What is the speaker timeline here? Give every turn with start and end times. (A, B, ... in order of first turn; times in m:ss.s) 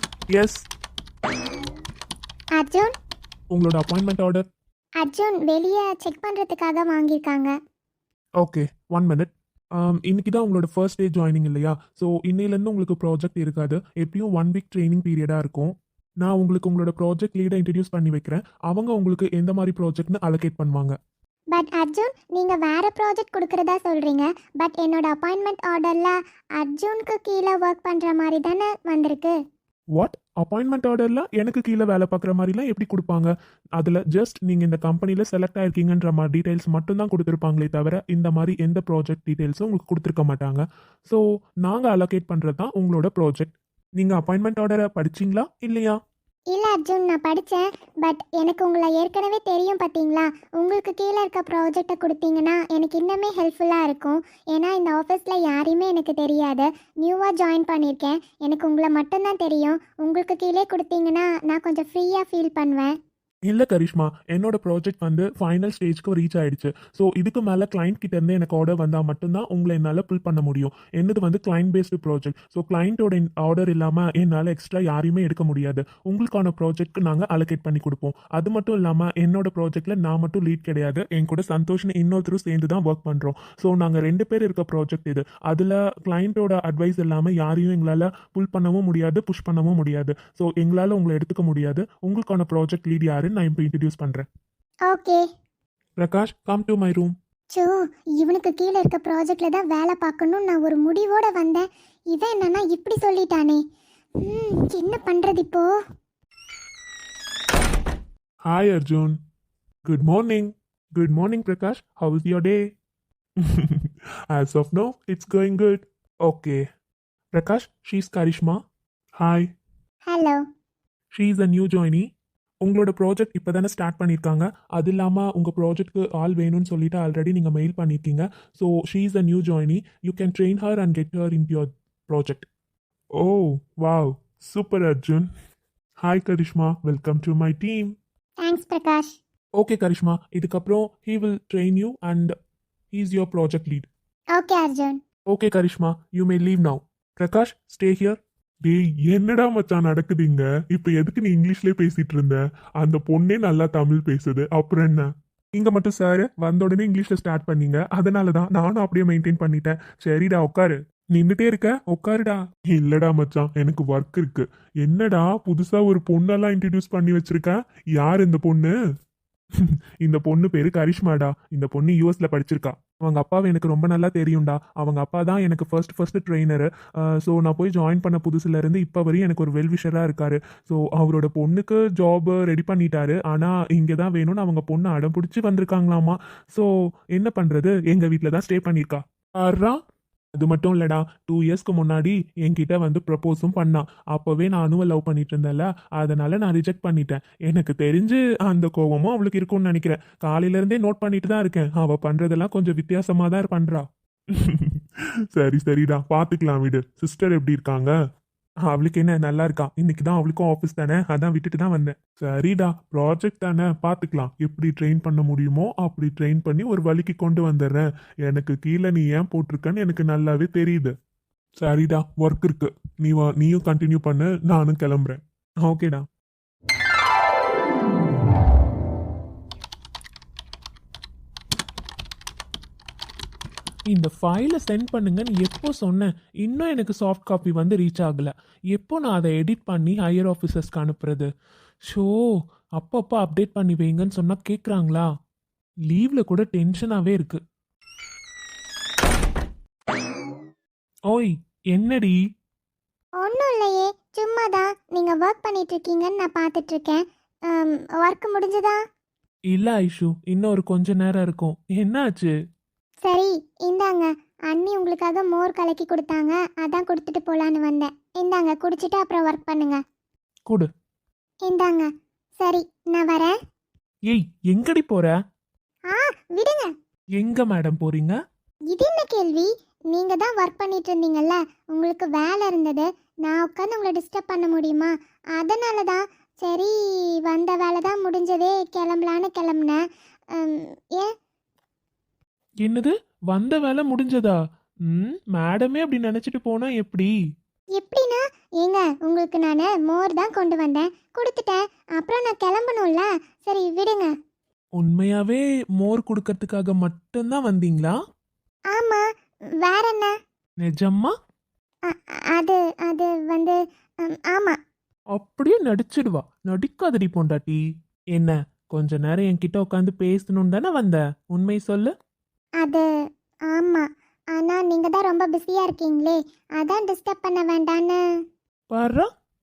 0:00.3-0:00.6 A
0:02.6-0:02.9 B
0:03.5-0:04.4 A
0:05.0-0:07.5 B
0:08.4-0:20.9 A
0:21.5-0:29.3 B
0:30.0-0:46.0 A
0:46.5-1:02.9 B
1:03.5-1:34.2 A
1:34.9-1:35.2 B
1:36.0-1:37.1 A
1:37.5-1:43.6 B
1:44.2-1:45.7 B
1:48.5-1:49.2 A
1:49.8-1:52.6 A
1:53.4-1:56.6 A
1:57.3-1:58.6 A
1:59.2-1:59.5 A
2:00.1-2:00.4 B
2:01.1-2:02.0 A
2:02.6-2:12.4 A
2:13.2-2:15.3 A
2:16.0-2:17.9 A
2:18.4-2:19.1 B
2:19.6-2:22.3 A
2:22.9-2:23.9 A
2:24.4-2:25.0 B
2:25.3-2:48.7 A
2:50.0-3:09.8 A
3:10.4-3:23.8 A
3:24.4-3:24.8 A
3:25.3-3:27.9 A
3:28.6-3:40.9 A
3:41.6-3:46.0 A
3:53.9-4:01.3 A
4:01.9-4:02.2 A
4:02.8-4:05.1 A
4:05.9-4:07.4 A
4:11.1-4:12.2 A
4:13.2-4:18.8 B
4:19.5-4:22.3 A
4:23.0-4:29.8 B
4:31.4-4:31.9 B
4:32.4-4:33.3 B
4:34.1-4:35.1 A
4:35.9-4:36.7 B
4:37.2-4:38.1 A
4:38.7-4:46.7 B
4:47.2-4:49.8 B
4:50.3-4:51.1 B
4:52.6-4:57.1 A
4:57.8-5:04.1 B
5:04.8-5:07.9 A
5:08.7-5:09.0 B
5:09.6-5:10.1 B
5:10.6-5:11.1 A
5:11.9-5:14.6 B
5:15.1-5:17.6 A
5:18.1-5:21.9 A
5:22.6-5:22.9 B
5:23.5-5:28.0 B
5:28.7-5:29.1 A